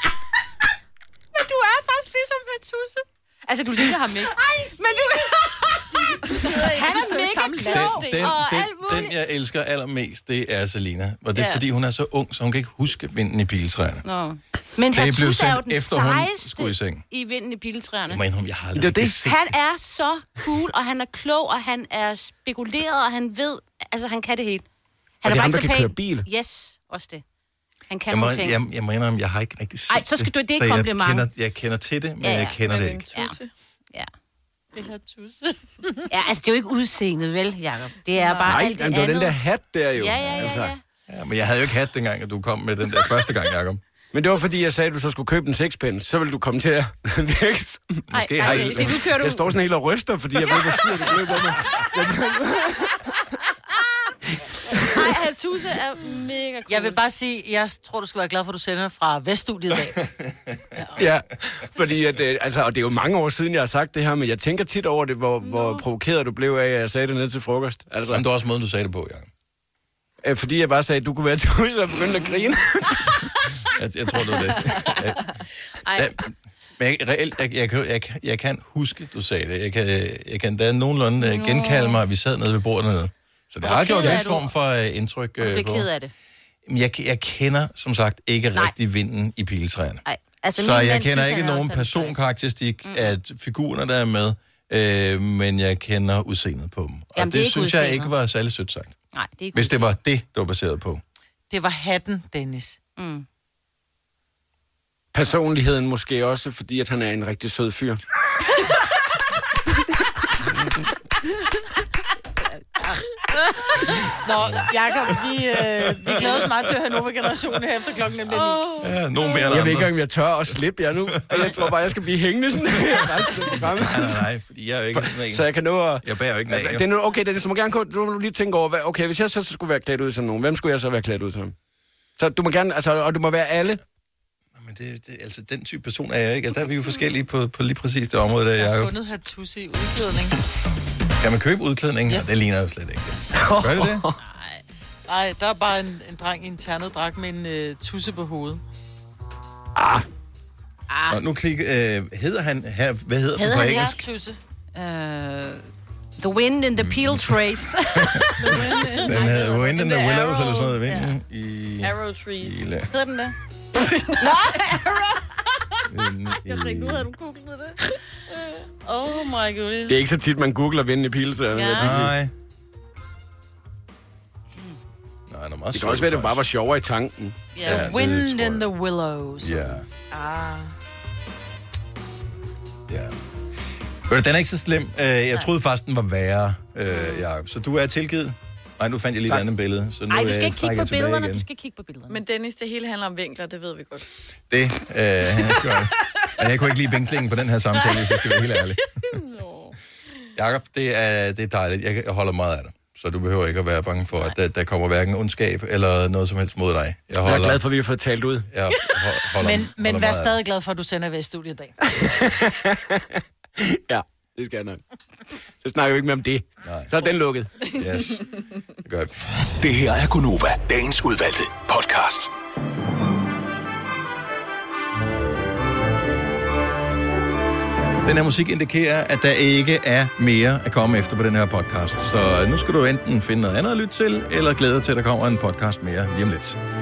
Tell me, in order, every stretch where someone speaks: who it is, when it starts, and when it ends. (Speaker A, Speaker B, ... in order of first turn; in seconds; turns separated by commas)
Speaker A: 1.3-9.1, Speaker B: 6.1-8.1, Speaker C: 7.7-14.0, Speaker A: 11.3-11.6, Speaker A: 14.0-18.2, Speaker C: 14.9-17.0, Speaker C: 18.1-19.5, Speaker D: 18.7-19.2, Speaker A: 19.1-24.6, Speaker A: 25.2-27.2, Speaker D: 25.2-26.3, Speaker A: 27.9-28.6, Speaker C: 28.1-33.0, Speaker A: 29.9-31.3, Speaker A: 32.2-32.6, Speaker E: 32.6-33.5, Speaker B: 34.7-36.1, Speaker A: 36.1-39.4, Speaker B: 38.2-38.5, Speaker D: 38.5-40.7, Speaker A: 39.9-40.8, Speaker C: 41.1-43.8, Speaker D: 44.1-53.0, Speaker C: 48.1-49.0, Speaker A: 48.1-49.5, Speaker A: 50.4-52.0, Speaker D: 54.7-55.1, Speaker A: 54.9-57.0, Speaker B: 56.7-60.0, Speaker D: 61.0-68.2, Speaker A: 65.4-65.9, Speaker C: 68.1-69.3, Speaker D: 70.2-73.1, Speaker C: 73.7-75.2, Speaker A: 74.8-75.0, Speaker A: 75.8-76.1, Speaker C: 75.9-85.9, Speaker A: 81.2-82.0, Speaker A: 83.6-84.5, Speaker A: 85.4-86.1, Speaker C: 86.7-90.0, Speaker A: 90.0-92.2, Speaker C: 90.5-98.9, Speaker A: 92.8-93.2, Speaker A: 97.2-98.1, Speaker A: 99.1-99.9, Speaker C: 99.5-101.0, Speaker B: 101.5-102.8, Speaker A: 103.0-103.2, Speaker D: 105.1-108.0, Speaker A: 113.4-113.8, Speaker B: 114.2-118.7, Speaker C: 116.0-116.4, Speaker A: 118.3-119.6, Speaker C: 118.8-119.9, Speaker D: 119.5-124.2, Speaker C: 121.2-121.7, Speaker C: 123.4-125.5, Speaker D: 124.9-131.5, Speaker C: 126.0-126.8, Speaker D: 132.2-133.8, Speaker C: 134.6-138.9, Speaker B: 138.6-140.4, Speaker C: 141.2-144.0, Speaker B: 142.1-142.4, Speaker D: 143.3-144.2, Speaker A: 144.3-144.6, Speaker B: 145.1-148.6, Speaker D: 149.8-150.0, Speaker A: 150.9-151.2, Speaker C: 151.1-154.0, Speaker A: 153.3-154.0, Speaker B: 153.6-154.4, Speaker A: 154.7-155.6, Speaker A: 156.2-161.1, Speaker C: 156.7-157.4, Speaker C: 157.9-158.5, Speaker E: 158.4-159.1, Speaker C: 159.0-162.9, Speaker E: 161.8-162.7, Speaker A: 162.9-163.3, Speaker A: 164.1-170.0, Speaker C: 165.9-167.1, Speaker D: 169.9-172.1, Speaker A: 171.5-172.0, Speaker C: 171.8-172.3, Speaker C: 175.3-176.4, Speaker D: 175.7-177.4, Speaker A: 177.5-177.9, Speaker C: 177.6-178.7, Speaker B: 177.6-179.6, Speaker C: 179.4-179.8, Speaker E: 180.1-180.7, Speaker C: 182.9-183.1, Speaker C: 184.1-191.4, Speaker A: 186.9-187.3, Speaker A: 190.1-192.2, Speaker E: 192.1-194.1, Speaker C: 194.5-198.9, Speaker A: 199.3-199.7, Speaker C: 200.3-207.6, Speaker D: 207.2-208.5, Speaker C: 208.5-210.4, Speaker B: 209.4-211.7, Speaker D: 211.9-214.8, Speaker D: 215.6-217.5, Speaker C: 216.6-216.9, Speaker E: 217.7-218.2, Speaker C: 217.8-218.2, Speaker C: 218.8-219.1, Speaker F: 219.6-222.3, Speaker C: 228.0-236.6